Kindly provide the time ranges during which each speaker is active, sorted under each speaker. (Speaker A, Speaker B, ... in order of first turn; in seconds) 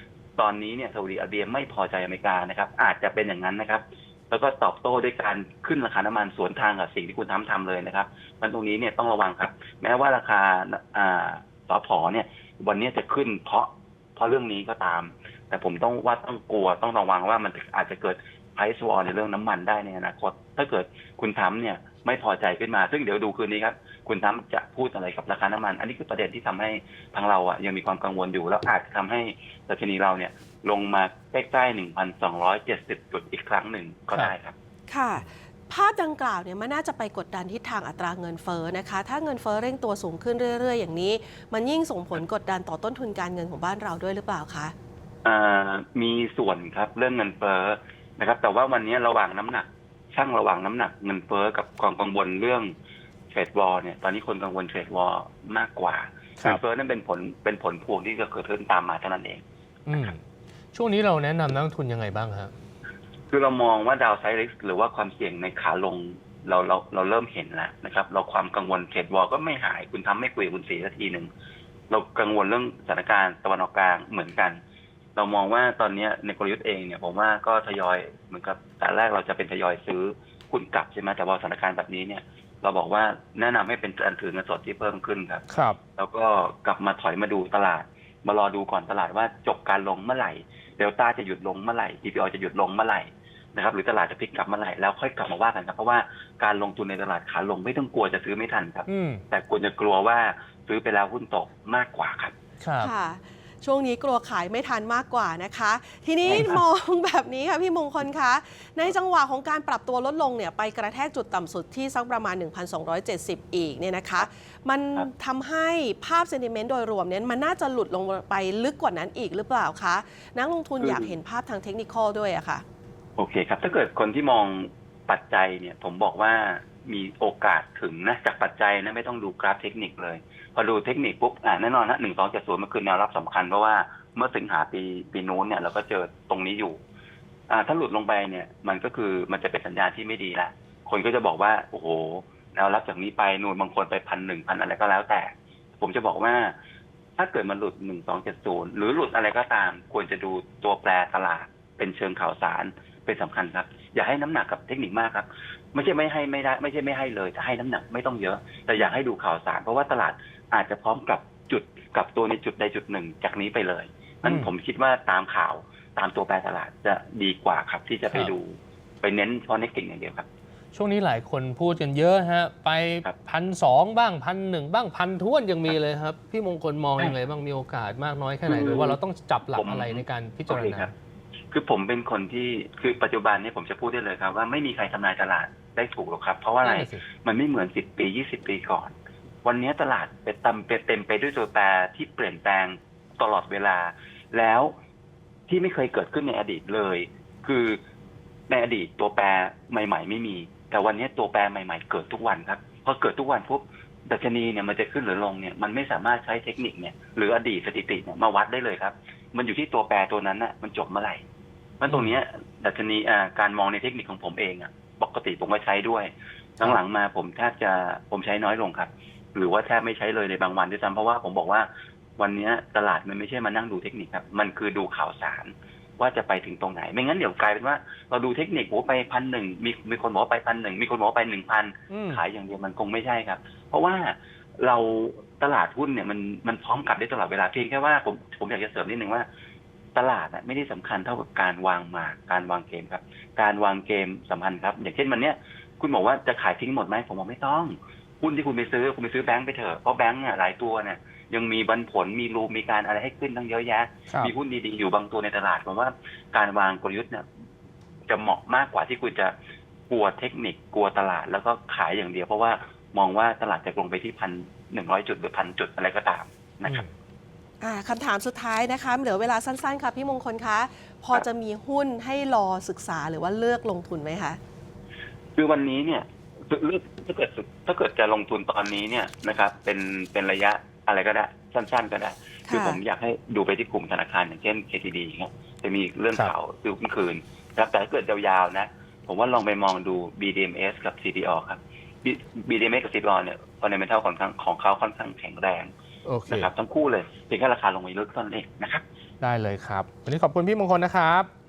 Speaker A: 0.4-34.5, 45.2-52.7, 53.3-59.4, 63.3-71.3, 71.9-74.6, 75.2-102.3, 106.2-106.6, 120.8-121.2, 123.2-136.8, 137.5-146.6, 147.2-170.3, 178.5-179.0, 179.5-180.9, 181.5-188.9, 189.4-194.7, 195.5-197.8, 198.5-211.2, 211.8-239.2, 239.9-257.2, 258.1-259.3, 259.9-266.8, 275.4-295.7, 296.3-298.8
Speaker B: 34.9-44.7, 102.8-122.6, 267.6-274.4, 282.5-282.8
Speaker C: 59.9-60.2, 60.7-62.5, 85.5-85.8, 98.9-99.2, 102.6-102.9, 164.2-164.5, 170.7-180.9, 186.6-187.0, 211.9-212.2, 231.9-232.2, 266.6-266.9, 296.0-296.5, 299.2-301.3